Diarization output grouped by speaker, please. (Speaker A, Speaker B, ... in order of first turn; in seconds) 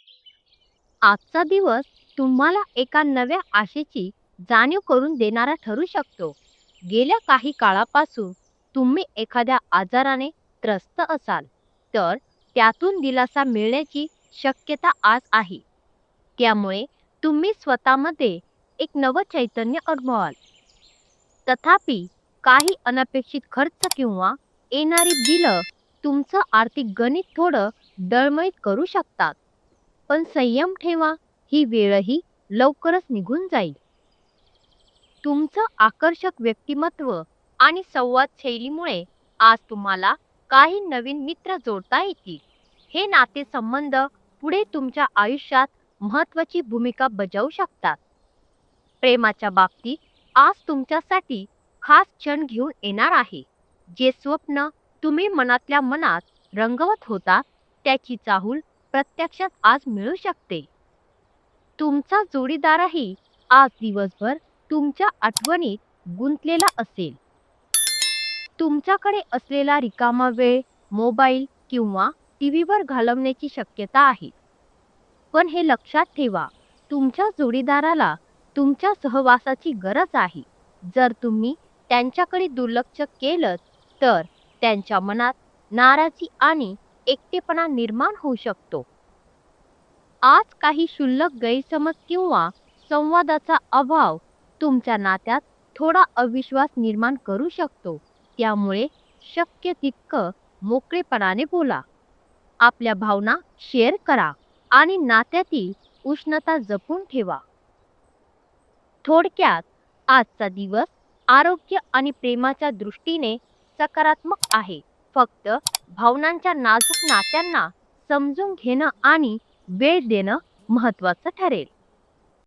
Speaker A: 1.0-6.4, 6.9-15.6, 16.4-20.4, 21.4-29.4, 30.1-33.8, 35.2-48.0, 49.0-60.7, 61.8-67.2, 68.6-74.3, 75.3-88.8, 90.2-101.8, 102.6-107.4, 109.0-121.7